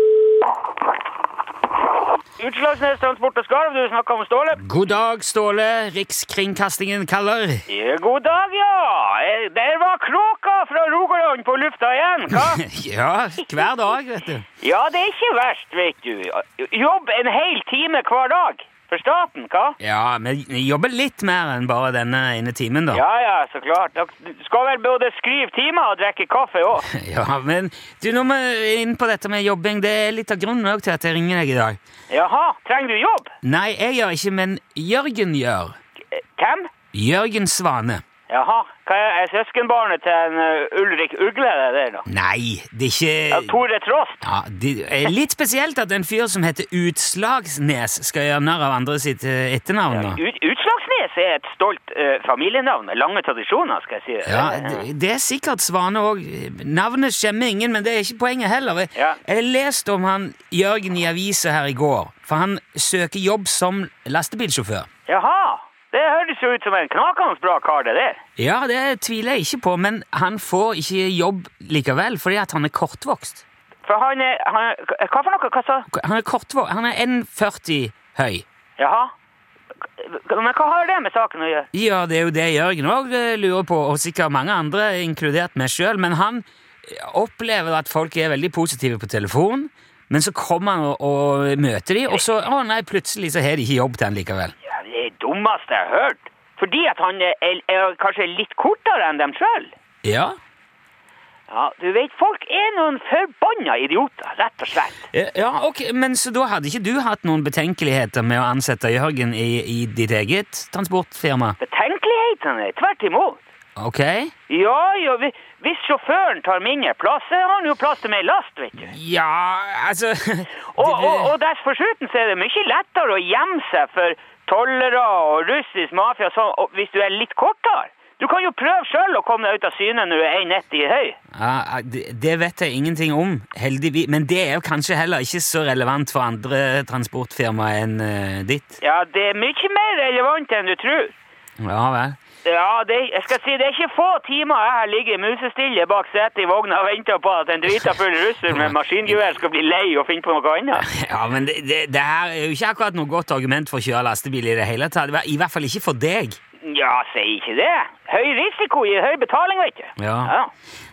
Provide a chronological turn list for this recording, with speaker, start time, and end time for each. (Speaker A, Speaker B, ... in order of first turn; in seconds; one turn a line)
Speaker A: 2.4-4.8
Speaker B: 4.5-7.6
Speaker A: 7.7-12.6
Speaker B: 12.3-14.4
Speaker A: 14.6-19.8
Speaker B: 19.8-23.0
Speaker A: 22.9-26.9
Speaker B: 26.9-31.8
Speaker A: 32.1-33.3
Speaker B: 33.4-35.8
Speaker A: 36.1-36.7
Speaker B: 36.9-38.0
Speaker A: 38.3-42.0
Speaker B: 42.1-43.6
Speaker A: 43.3-44.2
Speaker B: 44.2-50.2
Speaker A: 49.9-54.9
Speaker B: 54.3-64.9
Speaker A: 59.0-59.2
Speaker A: 65.0-68.2
Speaker B: 68.4-73.4
Speaker A: 73.8-75.9
Speaker B: 75.9-78.4
Speaker A: 78.8-79.1
Speaker A: 80.0-81.7
Speaker B: 81.7-94.5
Speaker A: 94.6-99.7
Speaker B: 100.0-100.3
Speaker A: 101.5-105.1
Speaker B: 105.1-111.6
Speaker A: 111.6-113.4
Speaker B: 113.8-114.3
Speaker A: 114.5-118.9
Speaker B: 118.8-121.3
Speaker A: 120.7-131.2
Speaker B: 131.3-138.8
Speaker A: 138.8-141.2
Speaker B: 141.6-142.2
Speaker A: 142.4-150.9
Speaker B: 148.5-149.2
Speaker B: 150.8-156.4
Speaker A: 156.6-160.5
Speaker B: 160.0-160.3